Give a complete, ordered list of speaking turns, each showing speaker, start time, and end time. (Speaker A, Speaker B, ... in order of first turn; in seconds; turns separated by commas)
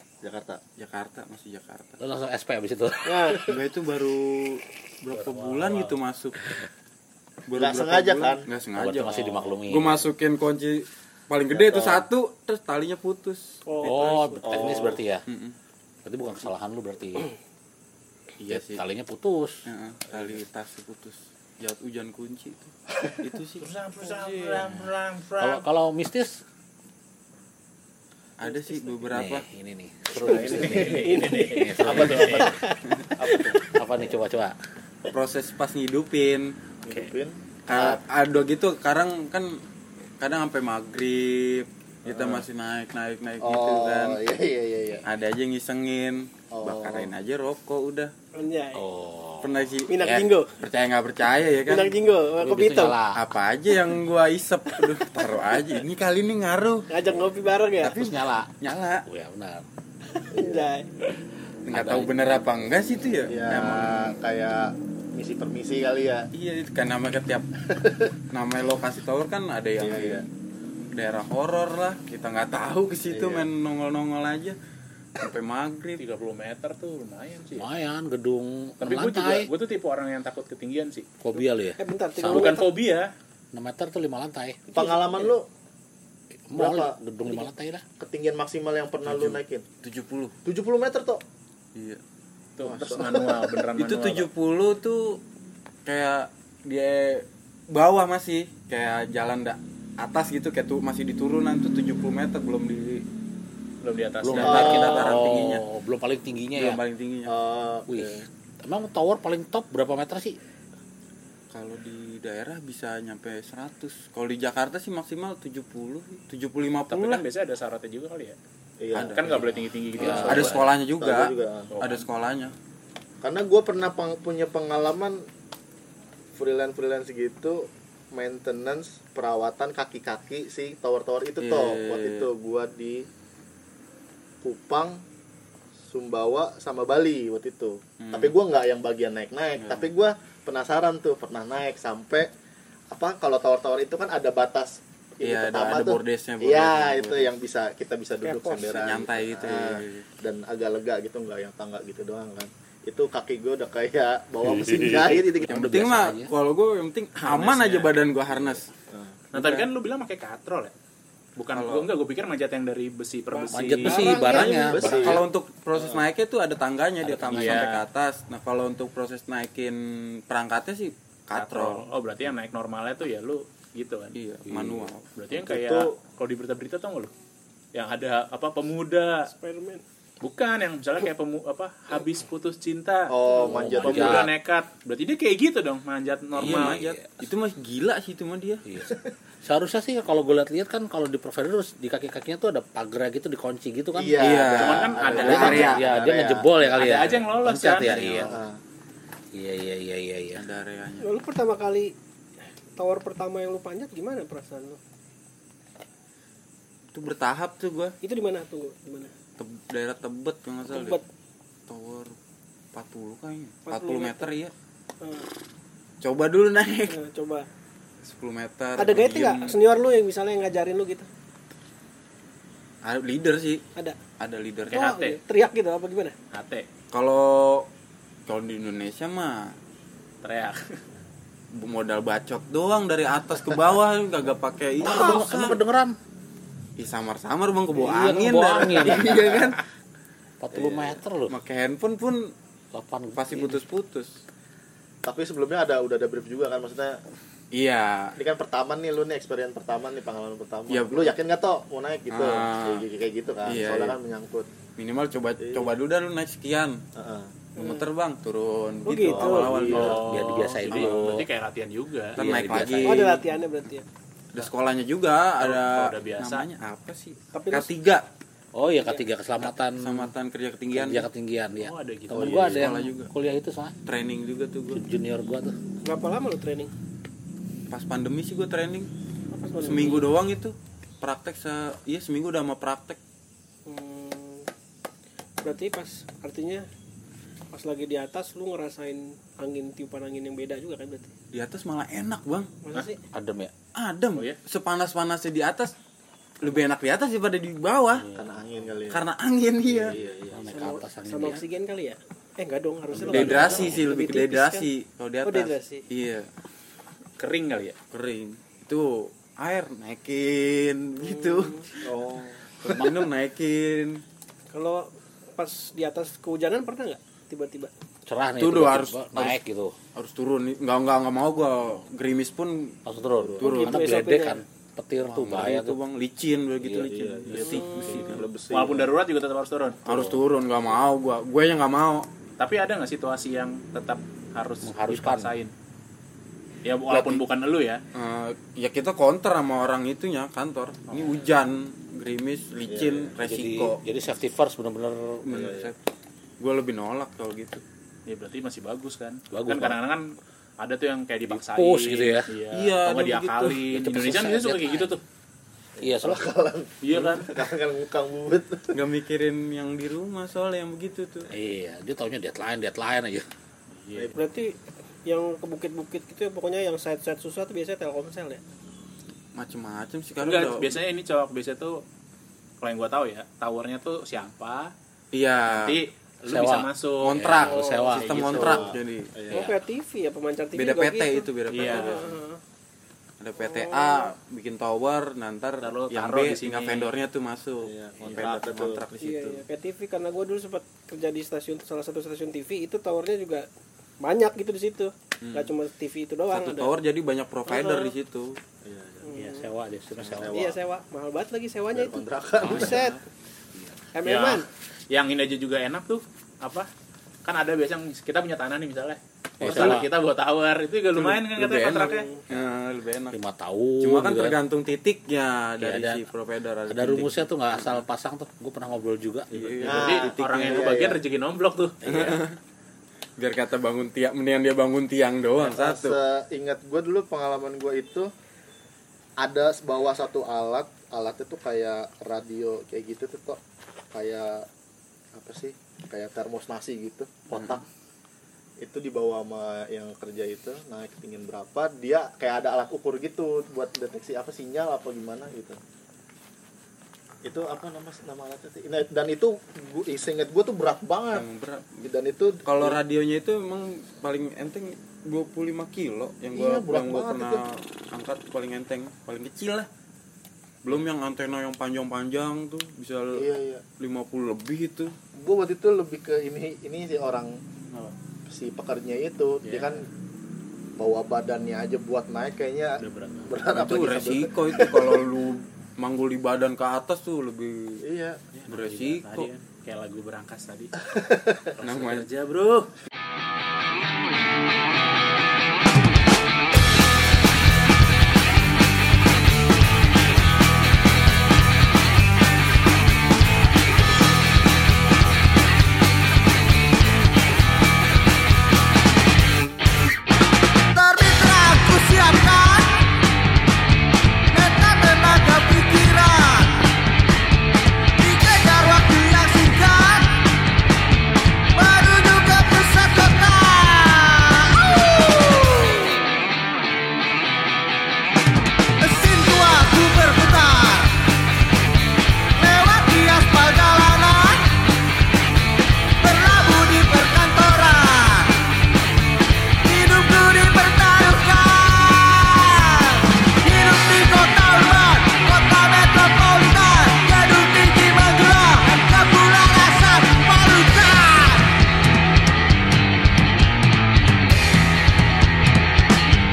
Speaker A: 0.2-0.6, Speaker B: 0.8-2.0, Speaker C: 2.0-3.3, Speaker D: 3.0-3.5, Speaker B: 3.5-6.4, Speaker E: 5.1-6.0, Speaker B: 7.5-13.6, Speaker A: 7.6-8.4, Speaker C: 8.7-10.1, Speaker A: 11.5-12.0, Speaker D: 13.7-14.8, Speaker C: 13.8-15.2, Speaker A: 14.4-15.0, Speaker B: 15.3-15.6, Speaker C: 16.0-17.3, Speaker B: 18.4-18.8, Speaker C: 18.5-19.6, Speaker B: 19.6-23.6, Speaker E: 23.6-25.7, Speaker C: 25.4-26.4, Speaker B: 28.4-29.5, Speaker C: 29.1-32.5, Speaker A: 30.2-31.0, Speaker D: 30.2-32.8, Speaker E: 30.5-32.6, Speaker A: 31.9-32.3, Speaker A: 33.2-33.6, Speaker C: 33.3-34.5, Speaker B: 35.1-36.5, Speaker A: 36.8-38.0, Speaker B: 37.7-39.6, Speaker B: 40.2-44.2, Speaker A: 42.0-42.4, Speaker A: 43.4-45.0, Speaker B: 45.0-48.1, Speaker A: 46.5-47.1, Speaker D: 48.3-48.9, Speaker C: 48.7-49.5, Speaker B: 49.4-51.9, Speaker D: 49.9-50.5, Speaker D: 51.7-53.0, Speaker C: 52.4-53.2, Speaker B: 53.1-56.9, Speaker D: 56.9-58.0, Speaker B: 57.8-59.0, Speaker C: 57.9-59.6, Speaker D: 60.3-60.9, Speaker A: 60.3-60.7, Speaker B: 61.7-64.1, Speaker C: 61.7-62.3, Speaker A: 63.3-66.3, Speaker B: 66.3-67.5, Speaker B: 68.3-70.2, Speaker A: 69.8-70.2, Speaker B: 70.9-74.6, Speaker A: 73.1-73.5, Speaker B: 75.2-76.0, Speaker E: 76.0-77.7, Speaker C: 77.6-79.5, Speaker E: 78.8-81.1, Speaker C: 81.2-82.6, Speaker D: 81.4-82.7, Speaker E: 82.2-83.1, Speaker C: 83.5-84.7, Speaker D: 84.7-85.3, Speaker A: 84.7-85.5, Speaker C: 86.5-87.8, Speaker A: 86.5-87.0, Speaker A: 88.0-89.6, Speaker B: 89.0-90.3, Speaker A: 90.4-91.2, Speaker B: 91.7-92.0, Speaker E: 92.6-94.3, Speaker A: 92.6-93.5, Speaker B: 93.8-95.2, Speaker B: 95.8-103.0, Speaker E: 103.8-105.1, Speaker C: 104.2-106.8, Speaker A: 104.3-105.2, Speaker B: 104.4-105.6, Speaker B: 106.5-107.3, Speaker A: 107.2-108.2, Speaker C: 107.9-110.4, Speaker B: 111.5-117.2, Speaker E: 116.9-118.3, Speaker A: 118.8-121.7, Speaker B: 118.9-119.4, Speaker E: 119.1-120.7, Speaker C: 120.0-120.5, Speaker B: 120.2-122.5, Speaker E: 121.7-122.0, Speaker A: 123.2-125.2, Speaker A: 126.3-133.0, Speaker B: 131.4-132.3, Speaker A: 134.4-135.0, Speaker A: 135.9-142.3, Speaker B: 138.0-138.3, Speaker B: 139.6-139.9, Speaker A: 142.9-155.6, Speaker B: 145.2-147.3, Speaker D: 148.2-148.6, Speaker B: 148.6-150.1, Speaker C: 154.4-156.3, Speaker B: 155.5-158.7, Speaker E: 157.2-157.9, Speaker A: 158.9-159.2, Speaker E: 159.3-160.7, Speaker E: 161.3-164.2, Speaker B: 161.5-161.9, Speaker D: 163.3-164.7, Speaker C: 163.5-165.2, Speaker A: 163.9-165.2, Speaker B: 164.7-171.9, Speaker A: 165.8-166.0, Speaker C: 167.0-167.7, Speaker E: 167.3-167.8, Speaker E: 171.3-174.2, Speaker B: 174.1-175.0, Speaker C: 174.5-174.9, Speaker E: 175.1-177.1, Speaker A: 175.3-175.9, Speaker E: 177.7-179.3, Speaker D: 179.3-179.8, Speaker E: 180.2-186.8, Speaker A: 183.1-184.3, Speaker C: 183.4-184.3, Speaker B: 186.4-188.6, Speaker C: 186.4-187.1, Speaker C: 188.7-194.5, Speaker A: 193.9-196.8, Speaker B: 194.2-195.8, Speaker E: 194.5-195.8, Speaker C: 195.1-198.3, Speaker E: 196.7-198.1, Speaker B: 197.8-198.3, Speaker A: 198.0-198.6, Speaker C: 199.3-200.4, Speaker B: 200.3-201.1, Speaker D: 201.0-201.9, Speaker D: 202.8-204.8, Speaker B: 206.9-207.9, Speaker D: 208.0-209.1, Speaker B: 209.4-211.0, Speaker D: 210.7-211.0, Speaker B: 211.7-212.2, Speaker B: 212.7-214.5, Speaker D: 213.7-214.3, Speaker D: 215.0-215.3, Speaker B: 216.0-217.0, Speaker D: 216.9-217.4, Speaker B: 218.0-219.6, Speaker D: 218.8-221.1, Speaker B: 222.8-223.6, Speaker B: 224.2-224.9, Speaker E: 224.7-225.2, Speaker D: 224.7-226.1, Speaker E: 226.3-226.7, Speaker B: 226.9-227.7, Speaker B: 228.3-229.6, Speaker E: 230.2-230.8, Speaker B: 231.5-235.6, Speaker C: 234.8-235.9, Speaker B: 236.8-239.6, Speaker C: 237.8-239.5, Speaker C: 240.4-241.3, Speaker B: 240.5-242.3, Speaker C: 242.7-243.6, Speaker B: 243.1-244.2, Speaker A: 245.0-247.0, Speaker B: 247.5-248.1, Speaker A: 248.2-254.5, Speaker B: 250.7-251.2, Speaker B: 252.1-252.8, Speaker B: 253.4-254.0, Speaker B: 254.8-256.8, Speaker A: 255.4-255.7, Speaker A: 256.9-257.3, Speaker D: 257.6-257.9, Speaker B: 257.6-260.0, Speaker D: 258.9-259.6, Speaker A: 259.1-260.0, Speaker E: 259.7-262.2, Speaker C: 259.8-261.2, Speaker B: 260.7-261.2, Speaker C: 262.2-263.1, Speaker B: 262.2-263.2, Speaker D: 262.8-263.8, Speaker B: 264.3-268.1, Speaker E: 265.4-266.4, Speaker D: 267.3-267.7, Speaker C: 268.5-270.1, Speaker D: 268.7-269.0, Speaker B: 269.4-271.1, Speaker C: 270.7-273.7, Speaker E: 271.6-272.5, Speaker A: 272.1-272.6, Speaker B: 272.3-273.1, Speaker B: 273.9-274.8, Speaker C: 274.7-275.5, Speaker D: 275.8-276.7, Speaker B: 277.7-278.9, Speaker D: 279.3-280.1, Speaker B: 279.6-283.0, Speaker D: 283.6-284.5, Speaker D: 285.4-286.6, Speaker D: 287.5-291.1, Speaker B: 291.3-292.5, Speaker D: 292.6-293.0, Speaker C: 293.1-293.5, Speaker B: 293.7-295.7, Speaker B: 296.4-298.1, Speaker C: 298.0-298.4, Speaker A: 298.1-299.1, Speaker B: 298.9-299.9, Speaker A: 299.6-300.7, Speaker C: 300.3-301.4, Speaker D: 300.5-304.7, Speaker C: 303.0-303.8, Speaker B: 303.1-306.3, Speaker A: 303.2-303.7, Speaker D: 305.2-305.8, Speaker E: 307.2-307.8, Speaker B: 307.9-311.9, Speaker D: 311.0-311.7, Speaker A: 311.8-312.8, Speaker B: 312.6-314.0, Speaker D: 314.5-317.7, Speaker C: 318.1-319.7, Speaker B: 318.4-319.4, Speaker B: 319.9-322.8, Speaker C: 322.9-325.8, Speaker A: 323.1-323.5, Speaker B: 323.4-323.9, Speaker D: 323.4-324.4, Speaker B: 325.1-328.2, Speaker C: 326.6-326.9, Speaker A: 326.8-328.9, Speaker D: 327.4-328.0, Speaker E: 327.9-329.8, Speaker B: 329.9-332.1, Speaker C: 329.9-330.1, Speaker E: 332.4-335.5, Speaker C: 334.6-335.3, Speaker E: 336.6-337.8, Speaker B: 337.9-343.8, Speaker E: 340.9-341.2, Speaker A: 342.7-343.1, Speaker C: 343.2-345.2, Speaker B: 345.2-345.8, Speaker A: 345.3-345.7, Speaker B: 346.4-347.6, Speaker E: 348.1-350.1, Speaker C: 349.3-349.8, Speaker E: 350.6-355.0, Speaker C: 351.3-352.3, Speaker B: 352.5-353.6, Speaker C: 353.7-354.9, Speaker A: 355.8-358.7, Speaker C: 355.8-356.3, Speaker E: 356.8-357.3, Speaker B: 358.7-361.3, Speaker C: 361.3-363.2, Speaker E: 363.7-364.1, Speaker D: 364.1-368.4, Speaker B: 369.4-370.8, Speaker E: 370.2-371.8, Speaker E: 372.6-374.7, Speaker B: 375.1-375.8, Speaker E: 375.5-377.4, Speaker C: 376.3-378.3, Speaker B: 377.0-379.4, Speaker D: 377.4-377.9, Speaker E: 378.0-378.7, Speaker A: 378.1-379.5, Speaker D: 379.3-382.4, Speaker B: 380.5-382.1, Speaker E: 381.5-382.0, Speaker B: 383.2-389.4, Speaker D: 383.4-384.1, Speaker E: 385.6-386.9, Speaker A: 387.6-388.9, Speaker D: 389.0-393.4, Speaker D: 394.0-396.7, Speaker B: 395.2-395.5, Speaker B: 396.3-398.4, Speaker D: 397.5-397.9, Speaker A: 398.6-399.1, Speaker D: 399.0-399.5, Speaker C: 399.1-400.3, Speaker A: 400.0-400.6, Speaker D: 400.3-403.0, Speaker A: 401.7-402.9, Speaker C: 402.4-402.8, Speaker D: 403.9-404.4, Speaker E: 404.0-406.7, Speaker E: 407.2-412.1, Speaker C: 409.4-409.9, Speaker B: 409.4-409.8, Speaker B: 410.9-413.2, Speaker D: 411.7-412.2, Speaker C: 413.1-414.4, Speaker B: 413.8-417.8, Speaker C: 415.6-416.0, Speaker C: 416.7-419.6, Speaker B: 419.3-420.8, Speaker E: 419.6-422.2, Speaker A: 419.6-421.0, Speaker B: 421.8-422.4, Speaker B: 423.2-426.0, Speaker A: 425.4-428.1, Speaker A: 429.2-433.4, Speaker A: 433.9-434.5, Speaker A: 435.1-437.6, Speaker B: 437.3-437.6, Speaker A: 438.6-445.6, Speaker A: 447.2-451.3, Speaker B: 451.1-451.9, Speaker A: 451.8-452.8, Speaker B: 452.4-459.7, Speaker A: 456.3-457.4, Speaker B: 460.6-464.9, Speaker A: 463.1-463.6, Speaker A: 465.1-467.4, Speaker A: 468.3-469.9, Speaker E: 469.4-469.8, Speaker A: 470.8-475.0, Speaker E: 472.8-473.4, Speaker B: 473.5-477.8, Speaker A: 477.8-478.2, Speaker E: 478.3-480.7, Speaker B: 478.5-479.3, Speaker A: 480.9-481.4, Speaker E: 481.6-482.7, Speaker B: 481.6-482.1, Speaker F: 500.7-502.9, Speaker F: 504.3-506.7, Speaker F: 508.0-510.2, Speaker F: 511.5-516.0, Speaker F: 518.8-521.0, Speaker F: 522.4-524.5, Speaker F: 526.0-528.4, Speaker F: 529.6-541.5